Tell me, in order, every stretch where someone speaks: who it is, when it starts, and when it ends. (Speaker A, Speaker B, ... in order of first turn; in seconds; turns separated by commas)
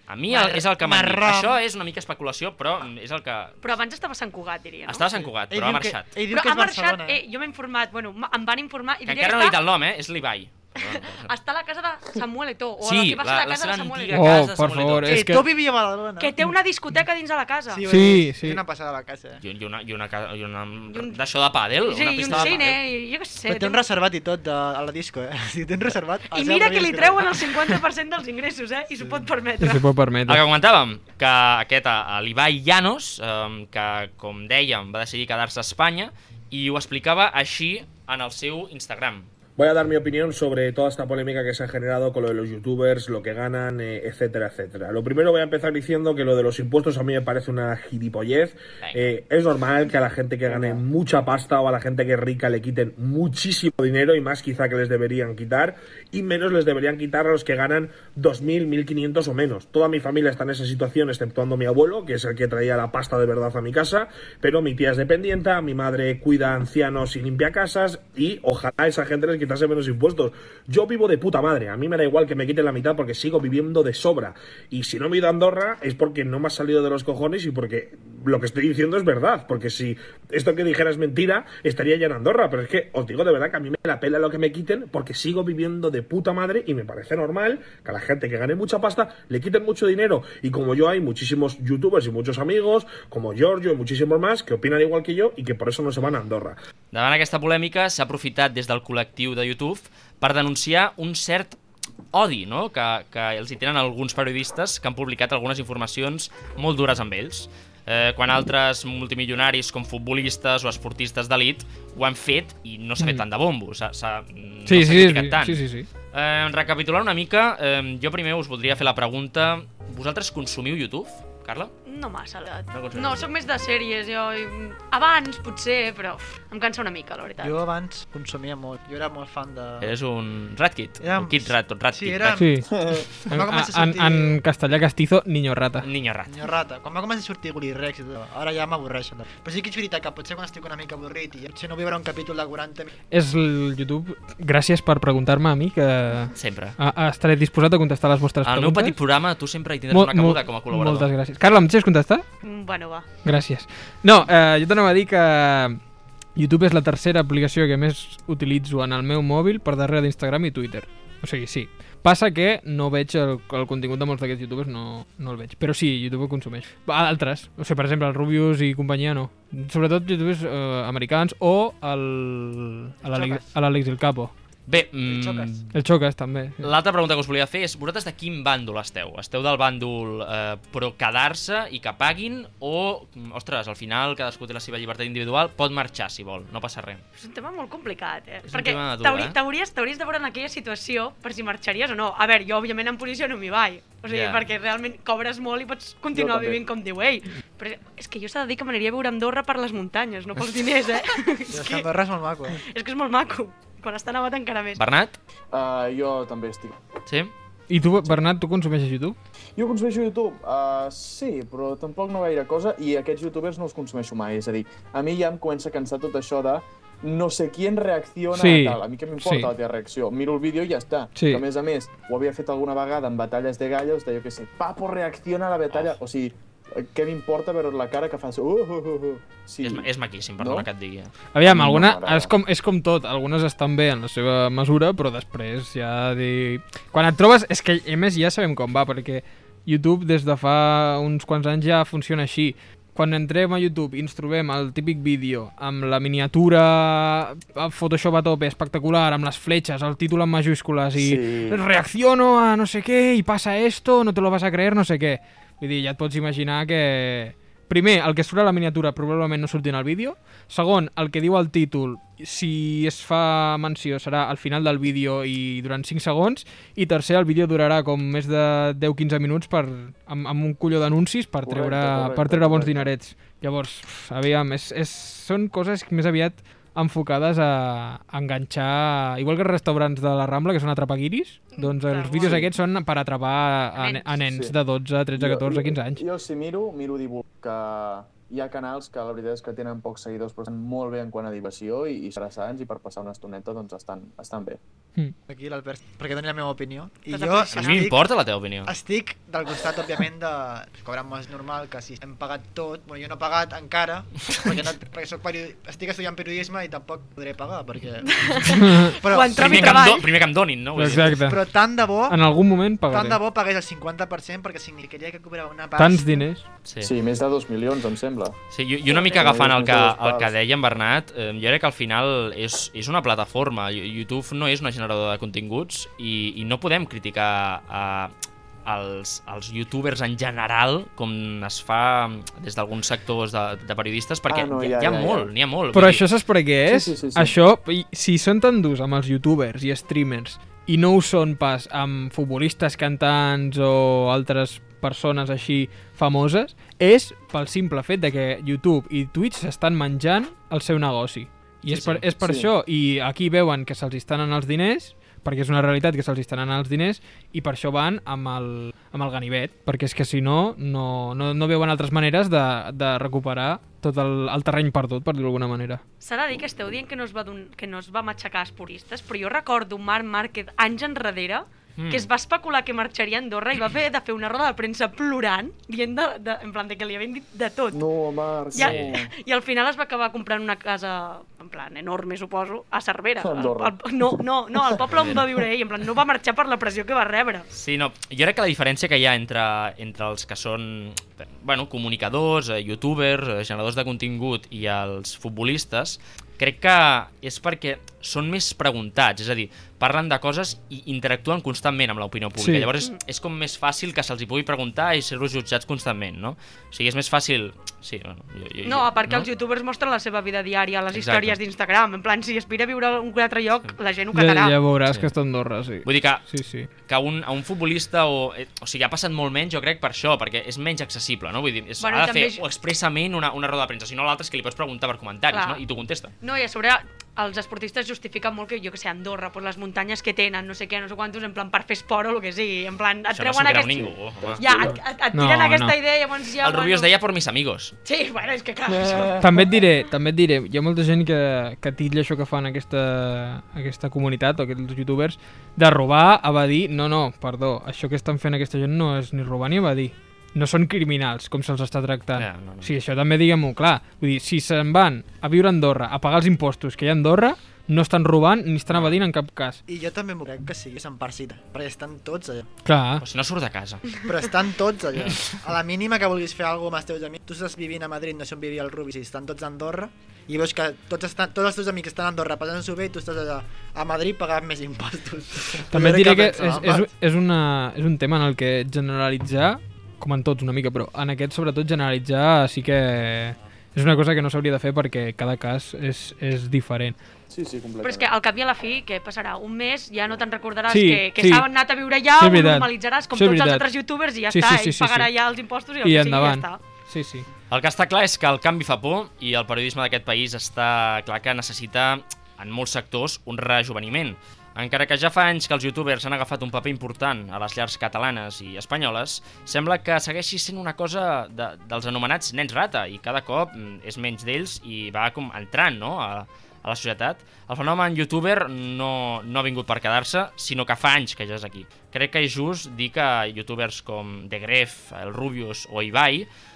Speaker A: 0.1-3.6, Speaker B: 0.3-1.6, Speaker C: 3.6-5.0, Speaker A: 4.9-6.1, Speaker B: 5.2-7.2, Speaker C: 6.3-9.6, Speaker A: 9.1-11.3, Speaker C: 10.8-14.4, Speaker A: 12.8-15.4, Speaker D: 14.1-15.5, Speaker B: 15.1-16.5, Speaker C: 16.2-17.8, Speaker B: 17.7-19.4, Speaker D: 17.9-18.6, Speaker A: 19.4-22.8, Speaker C: 20.9-21.2, Speaker C: 21.8-23.8, Speaker B: 22.3-22.7, Speaker B: 23.4-27.8, Speaker C: 26.3-29.8, Speaker B: 28.9-29.3, Speaker D: 29.6-30.4, Speaker A: 30.3-39.3, Speaker E: 39.6-96.6, Speaker A: 48.8-49.1, Speaker F: 50.5-50.8, Speaker A: 96.9-101.6, Speaker A: 102.1-121.7, Speaker D: 114.7-115.9, Speaker C: 121.8-127.5, Speaker A: 122.7-123.3, Speaker B: 127.4-129.9, Speaker A: 129.8-132.4, Speaker B: 131.0-134.4, Speaker D: 132.3-132.7, Speaker F: 132.7-133.0, Speaker D: 133.3-135.9, Speaker A: 135.8-136.3, Speaker B: 136.3-142.9, Speaker D: 143.1-148.9, Speaker A: 146.3-146.8, Speaker A: 148.4-151.1, Speaker D: 149.9-152.2, Speaker C: 152.4-153.1, Speaker D: 153.2-155.8, Speaker D: 156.3-174.3, Speaker B: 173.1-173.4, Speaker A: 174.7-175.7, Speaker B: 175.0-175.5, Speaker D: 175.7-176.7, Speaker A: 176.6-187.0, Speaker C: 187.2-201.8, Speaker A: 188.4-189.3, Speaker A: 194.1-194.4, Speaker F: 196.1-196.6, Speaker B: 201.5-202.6, Speaker C: 202.7-204.8, Speaker A: 204.8-205.2, Speaker F: 205.5-206.8, Speaker A: 207.1-207.3, Speaker D: 207.7-209.2, Speaker F: 209.6-230.7, Speaker D: 218.3-219.5, Speaker D: 221.1-221.4, Speaker A: 229.6-231.1, Speaker D: 231.3-286.0, Speaker F: 231.4-232.3, Speaker F: 250.9-251.6, Speaker F: 271.4-272.9, Speaker C: 281.5-282.4, Speaker F: 282.2-282.5, Speaker C: 283.8-284.1, Speaker F: 284.3-284.6, Speaker F: 285.1-294.6, Speaker B: 295.3-298.0, Speaker C: 297.1-297.8, Speaker A: 297.5-298.7, Speaker B: 298.6-310.0, Speaker C: 308.1-310.1, Speaker D: 308.6-308.9, Speaker A: 309.3-311.2, Speaker D: 310.8-311.4, Speaker B: 310.9-312.2, Speaker D: 312.1-313.2, Speaker B: 312.9-316.1, Speaker D: 315.8-316.4, Speaker A: 316.6-316.9, Speaker F: 316.8-318.4, Speaker A: 318.5-328.1, Speaker F: 319.1-320.3, Speaker A: 328.6-336.0, Speaker F: 334.3-335.3, Speaker D: 335.7-365.8, Speaker F: 336.6-337.4, Speaker A: 351.7-352.0, Speaker F: 352.2-352.5, Speaker C: 366.0-377.8, Speaker A: 371.8-372.1, Speaker F: 377.7-379.1, Speaker C: 378.5-387.5, Speaker A: 378.6-378.9, Speaker F: 383.2-385.2, Speaker A: 384.9-385.2, Speaker A: 387.5-409.3, Speaker D: 402.4-402.7, Speaker C: 408.6-414.6, Speaker A: 410.9-411.4, Speaker D: 414.1-416.7, Speaker A: 415.8-416.2, Speaker A: 416.9-426.1, Speaker C: 421.8-422.4, Speaker C: 425.3-425.6, Speaker C: 426.2-436.9, Speaker A: 433.1-434.5, Speaker F: 434.2-434.8, Speaker D: 435.1-435.7, Speaker A: 436.4-437.7, Speaker C: 437.8-439.2, Speaker F: 438.7-439.6, Speaker D: 439.2-459.6, Speaker A: 452.1-452.7, Speaker A: 458.7-459.0, Speaker B: 459.7-462.5, Speaker D: 462.6-463.0, Speaker A: 463.0-463.9, Speaker B: 464.0-476.9, Speaker A: 465.0-465.3, Speaker D: 475.7-486.9, Speaker F: 487.3-488.1, Speaker C: 487.8-496.6, Speaker D: 490.7-491.4, Speaker D: 492.2-493.6, Speaker D: 494.3-495.1, Speaker D: 495.8-497.3, Speaker A: 497.5-526.3